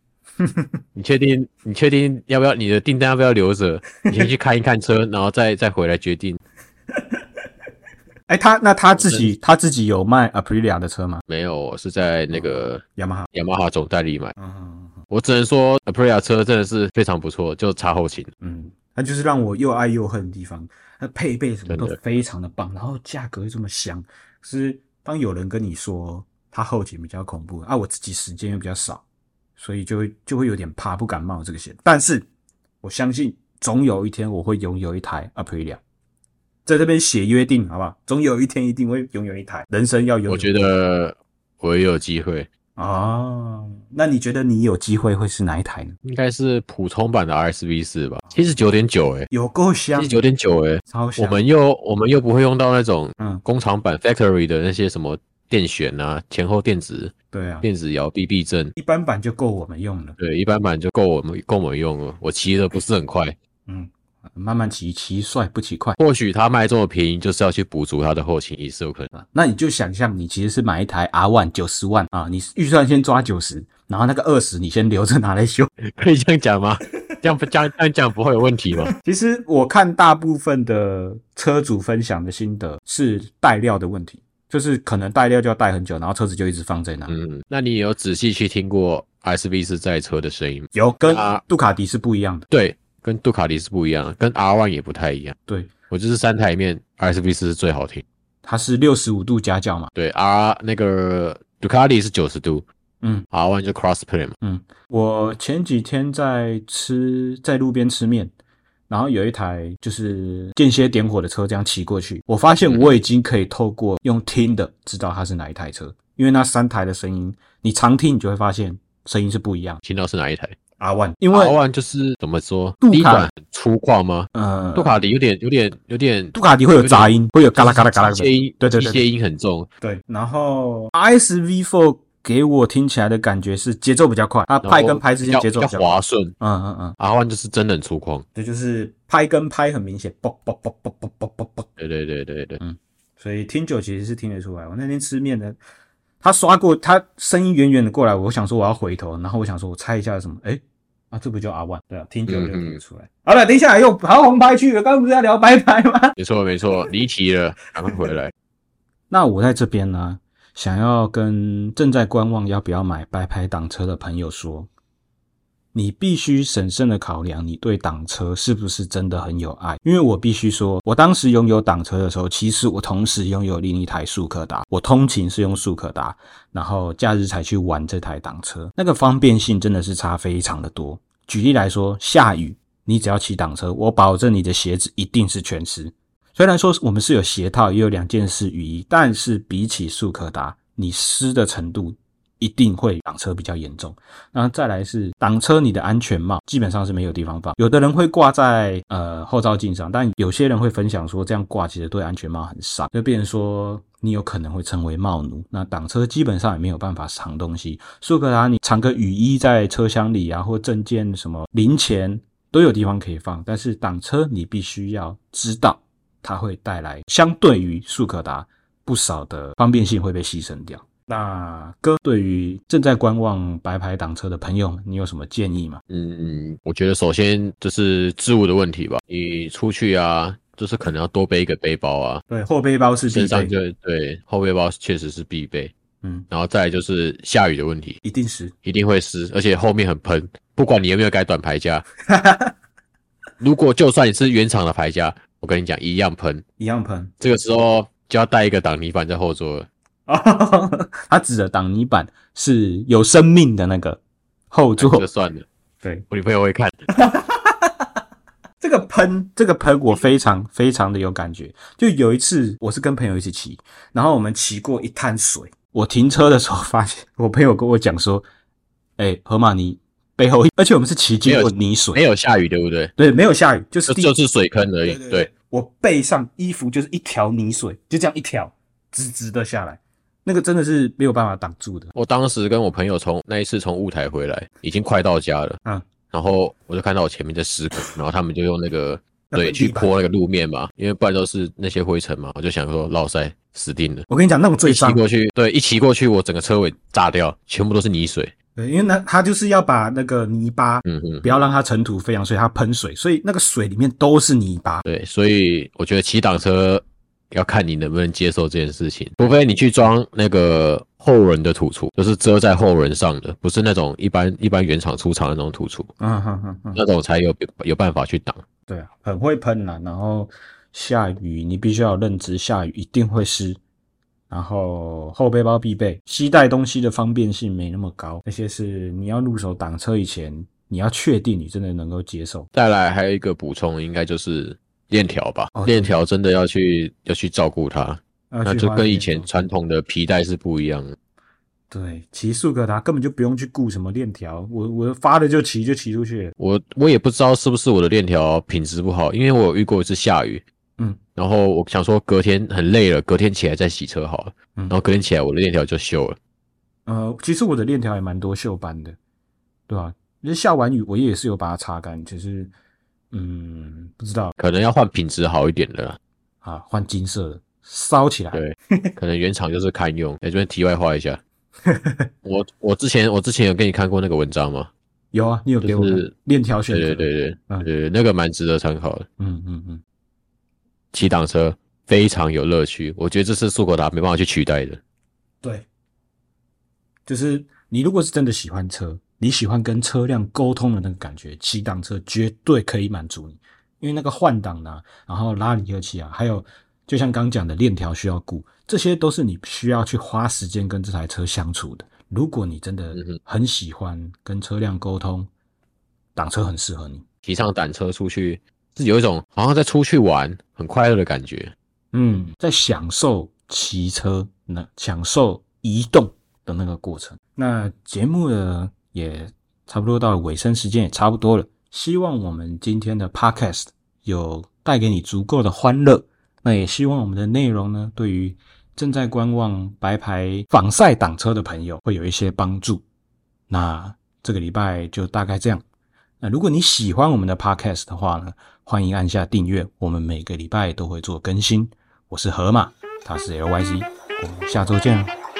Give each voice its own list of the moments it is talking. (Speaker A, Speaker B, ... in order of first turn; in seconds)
Speaker A: 0.4-0.7, 8.3-11.2, 12.3-13.3, 14.4-15.0, 18.4-29.0, 29.6-32.3, 32.8-35.8, 36.7-40.7, 42.8-46.0, 49.3-50.2, 50.9-51.4, 57.3-57.7, 58.8-60.2, 63.7-66.0, 69.1-75.7, 79.0-87.1, 90.7-92.5, 98.4-99.9, 104.4-108.3, 108.9-119.8, 120.8-121.6, 122.8-123.3, 124.3-125.0, 126.3-129.1, 129.8-137.0, 138.3-141.7, 142.6-145.6, 146.2-156.1, 159.1-164.7, 165.7-225.8, 232.3-233.6, 236.0-236.3, 238.0-238.5, 242.1-242.5, 246.6-247.1, 250.1-254.0, 254.5-255.1, 256.9-257.9, 258.6-268.2, 269.0-272.0, 273.0-274.1, 274.8-281.9, 289.3-289.9, 294.1-295.0, 298.6-304.8, 316.0-316.8, 318.7-323.6, 324.3-332.5, 335.5-336.0, 338.3-339.5, 341.7-346.3, 356.9-359.0, 359.7-362.5, 363.1-364.4, 366.4-368.9, 371.7-372.1, 375.1-377.7, 379.2-379.8, 387.1-405.3, 406.2-407.0, 411.9-432.8, 433.5-435.6, 436.2-445.1
Speaker B: 0.9-6.4, 8.9-9.3, 11.3-14.3, 15.1-18.3, 21.7-22.0, 40.3-42.5, 46.0-49.3, 50.0-58.7, 60.2-63.4, 66.0-69.1, 75.8-78.9, 87.1-91.4, 92.5-95.4, 95.9-98.0, 100.0-102.7, 103.3-104.3, 112.6-113.0, 119.8-120.5, 121.3-129.7, 134.6-136.3, 137.0-138.2, 141.8-142.6, 152.3-152.8, 156.2-158.3, 225.9-232.2, 233.1-235.7, 236.3-238.0, 238.6-241.8, 243.4-246.4, 247.2-249.7, 254.8-255.5, 256.1-256.8, 271.2-272.9, 273.9-275.3, 281.9-285.6, 286.1-294.1, 294.6-298.3, 300.9-301.4, 304.9-315.9, 316.7-318.4, 332.5-340.9, 346.4-350.4, 351.2-356.2, 364.4-366.0, 368.3-371.2, 372.2-374.7, 375.6-376.1, 376.7-379.1, 380.9-384.8, 407.2-411.5